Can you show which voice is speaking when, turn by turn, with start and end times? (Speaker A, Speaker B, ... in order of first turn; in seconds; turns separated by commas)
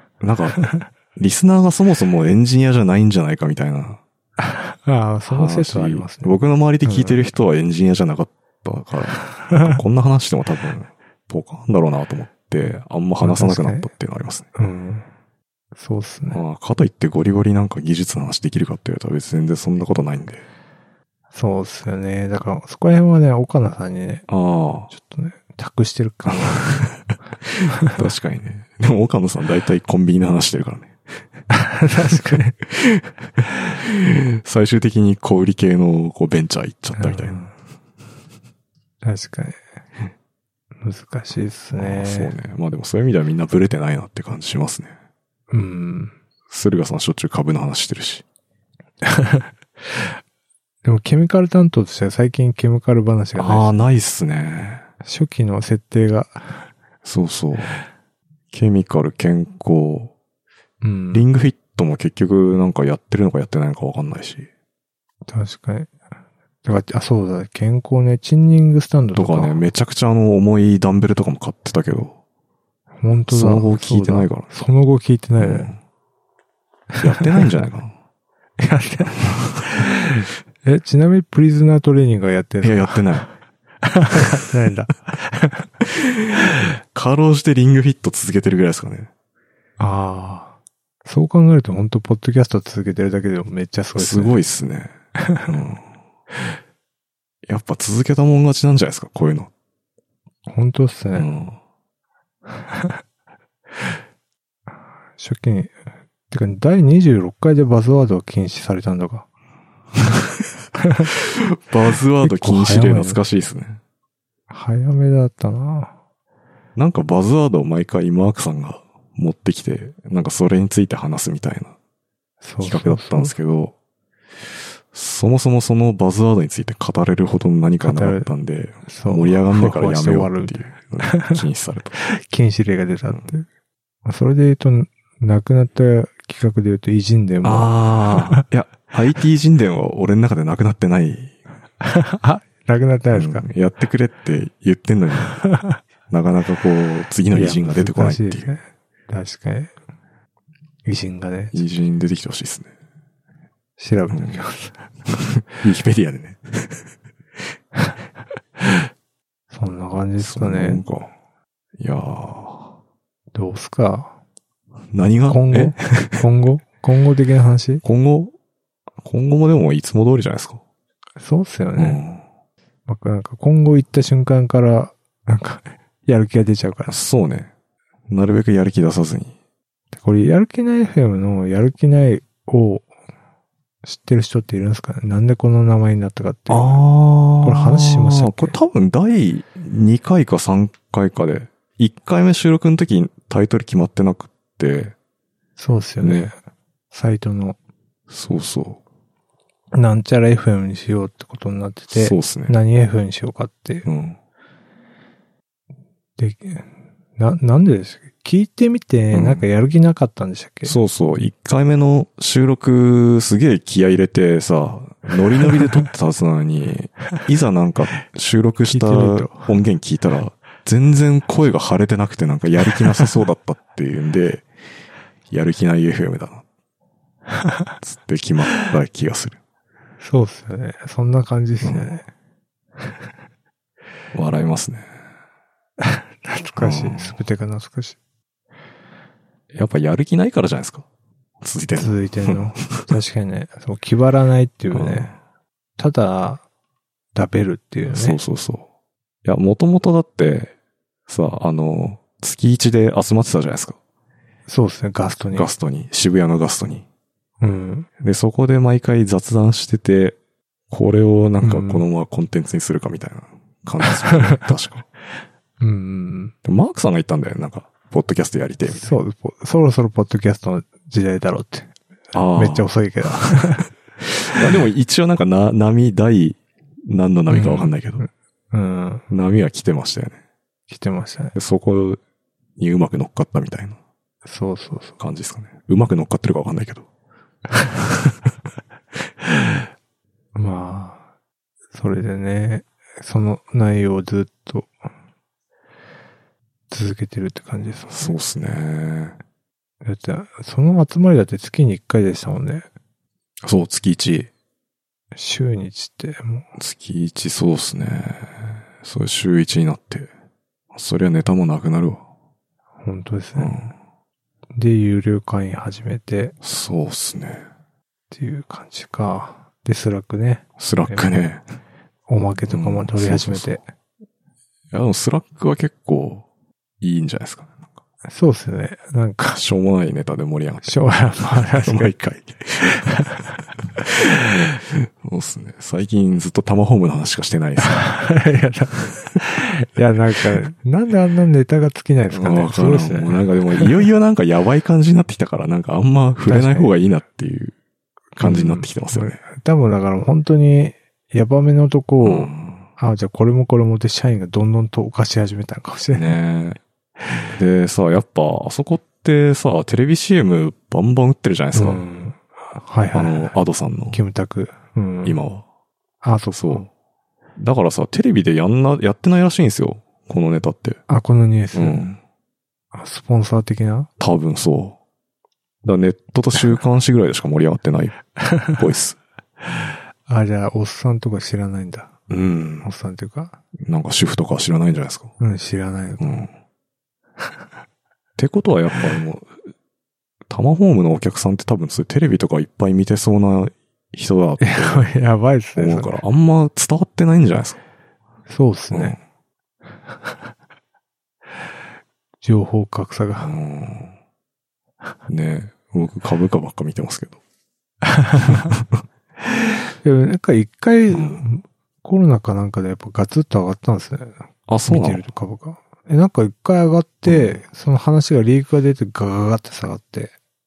Speaker A: 0.2-4.0, Speaker B: 4.4-7.2, Speaker A: 5.3-14.5, Speaker B: 9.3-9.8, Speaker B: 13.2-13.9, Speaker B: 14.6-15.1, Speaker B: 15.8-16.4, Speaker A: 16.3-20.5, Speaker B: 21.3-24.3, Speaker A: 24.3-24.9, Speaker B: 24.9-26.9, Speaker A: 26.3-26.9, Speaker A: 27.8-31.0, Speaker B: 31.5-32.5, Speaker A: 32.3-33.1, Speaker A: 33.8-37.4, Speaker B: 37.0-37.5, Speaker B: 39.0-39.6, Speaker B: 40.8-42.4, Speaker A: 41.8-44.9, Speaker B: 45.5-46.1, Speaker A: 46.5-48.2, Speaker B: 49.0-50.1, Speaker B: 50.8-53.8, Speaker A: 53.4-54.9, Speaker B: 55.0-56.7, Speaker A: 57.0-57.8, Speaker A: 58.5-60.1, Speaker B: 60.8-61.2, Speaker A: 61.1-64.5, Speaker B: 65.3-65.9, Speaker B: 66.6-69.6, Speaker A: 69.1-72.2, Speaker B: 73.0-75.7, Speaker A: 73.3-74.5, Speaker A: 75.4-75.8, Speaker B: 76.9-77.4, Speaker A: 77.0-77.9, Speaker B: 78.6-83.3, Speaker A: 82.6-83.3, Speaker B: 83.8-85.7, Speaker A: 86.0-86.4, Speaker A: 86.9-89.1, Speaker B: 89.8-90.5, Speaker B: 91.0-94.4, Speaker A: 94.0-94.9, Speaker A: 95.5-95.9, Speaker A: 97.5-99.5, Speaker B: 100.5-101.3, Speaker A: 101.2-101.6, Speaker B: 105.2-105.8, Speaker B: 106.3-109.3, Speaker B: 110.8-111.1, Speaker A: 111.4-113.8, Speaker B: 112.2-113.2, Speaker B: 114.5-115.9, Speaker A: 116.8-121.7, Speaker B: 122.4-123.3, Speaker A: 122.6-123.7, Speaker A: 124.9-131.9, Speaker B: 127.8-128.3, Speaker B: 128.9-131.4, Speaker B: 132.0-133.5, Speaker B: 134.1-138.4, Speaker A: 137.4-141.3, Speaker B: 141.8-143.5, Speaker A: 143.1-145.5, Speaker B: 145.4-145.8, Speaker A: 146.1-148.5, Speaker B: 147.3-149.7, Speaker B: 150.9-151.6, Speaker A: 151.5-152.7, Speaker B: 153.8-154.8, Speaker A: 154.1-154.4, Speaker A: 155.1-156.9, Speaker B: 159.5-160.8, Speaker A: 160.2-161.1, Speaker A: 161.8-162.8, Speaker B: 163.3-164.1, Speaker A: 164.9-166.2, Speaker B: 165.3-167.8, Speaker A: 167.8-168.3, Speaker A: 169.0-170.6, Speaker B: 171.2-172.0, Speaker A: 171.8-172.2, Speaker B: 172.9-177.0, Speaker A: 176.9-177.5, Speaker A: 178.1-179.3, Speaker B: 179.9-182.9, Speaker B: 183.8-186.8, Speaker A: 186.5-194.9, Speaker B: 187.4-188.5, Speaker B: 195.6-196.3, Speaker A: 196.0-196.3, Speaker B: 196.9-197.6, Speaker A: 198.1-198.8, Speaker B: 199.7-203.9, Speaker A: 201.9-202.6, Speaker A: 203.9-204.2, Speaker B: 206.2-210.8, Speaker A: 209.1-209.4, Speaker A: 210.7-224.5, Speaker B: 218.7-219.5, Speaker A: 225.3-226.4, Speaker A: 227.8-229.4, Speaker B: 230.0-232.1, Speaker A: 231.6-231.9, Speaker A: 234.1-234.9, Speaker B: 235.8-238.0, Speaker A: 236.6-237.2, Speaker A: 239.5-240.9, Speaker A: 241.4-242.9, Speaker B: 241.8-245.1, Speaker A: 244.7-245.2, Speaker B: 245.8-246.4, Speaker B: 247.1-248.2, Speaker A: 247.9-248.7, Speaker A: 249.2-250.5, Speaker A: 251.1-253.8, Speaker B: 254.5-255.5, Speaker A: 255.3-256.9, Speaker B: 257.4-257.9, Speaker A: 258.0-260.2, Speaker A: 260.7-264.9, Speaker B: 261.4-261.8, Speaker B: 264.1-264.4, Speaker B: 265.6-266.3, Speaker A: 266.4-269.0, Speaker B: 268.7-273.7, Speaker A: 272.1-272.7, Speaker A: 274.3-278.0, Speaker B: 277.3-279.1, Speaker A: 279.1-280.2, Speaker B: 280.7-281.4, Speaker A: 281.4-282.0, Speaker A: 282.6-283.8, Speaker B: 284.2-285.0, Speaker A: 285.0-286.9, Speaker B: 290.4-291.0, Speaker B: 291.7-294.8, Speaker B: 296.7-298.2, Speaker A: 297.9-299.2, Speaker B: 299.8-302.7, Speaker A: 303.4-304.3, Speaker B: 305.1-306.5, Speaker A: 306.6-310.1, Speaker A: 310.7-312.0, Speaker B: 312.8-313.5, Speaker A: 313.4-313.7, Speaker B: 314.6-316.4, Speaker A: 316.4-317.4, Speaker B: 318.1-321.2, Speaker A: 320.6-321.4, Speaker B: 322.1-323.6, Speaker A: 322.5-323.5, Speaker A: 324.7-326.3, Speaker A: 326.8-327.6, Speaker B: 328.1-329.4, Speaker A: 329.3-332.9, Speaker B: 330.6-331.9, Speaker B: 332.7-333.4, Speaker A: 334.2-337.9, Speaker B: 337.6-343.9, Speaker A: 342.1-347.6, Speaker B: 346.3-346.7, Speaker A: 348.1-349.2, Speaker B: 348.2-356.2, Speaker A: 352.0-352.7, Speaker A: 355.9-356.6, Speaker A: 357.3-361.8, Speaker B: 361.5-363.4, Speaker A: 362.9-364.0, Speaker B: 363.9-365.2, Speaker A: 365.0-365.4, Speaker B: 366.0-366.6, Speaker A: 366.3-366.7, Speaker A: 367.4-370.8, Speaker B: 370.9-371.9, Speaker A: 371.5-372.0, Speaker B: 372.7-373.9, Speaker A: 374.0-374.8, Speaker A: 375.6-379.0, Speaker B: 378.2-378.5, Speaker B: 380.1-381.9, Speaker A: 382.1-382.7, Speaker B: 382.6-383.4, Speaker A: 383.6-385.1, Speaker B: 385.2-386.2, Speaker A: 386.0-386.3, Speaker A: 388.2-389.4, Speaker A: 390.3-394.9, Speaker B: 394.4-396.0, Speaker A: 395.6-397.6, Speaker B: 398.3-399.0, Speaker A: 398.7-399.0, Speaker B: 402.2-403.4, Speaker A: 403.2-404.0, Speaker A: 405.1-407.2, Speaker B: 407.9-408.3, Speaker A: 408.2-408.8, Speaker B: 409.2-420.1, Speaker A: 410.9-411.2, Speaker A: 414.5-415.0, Speaker A: 417.1-417.4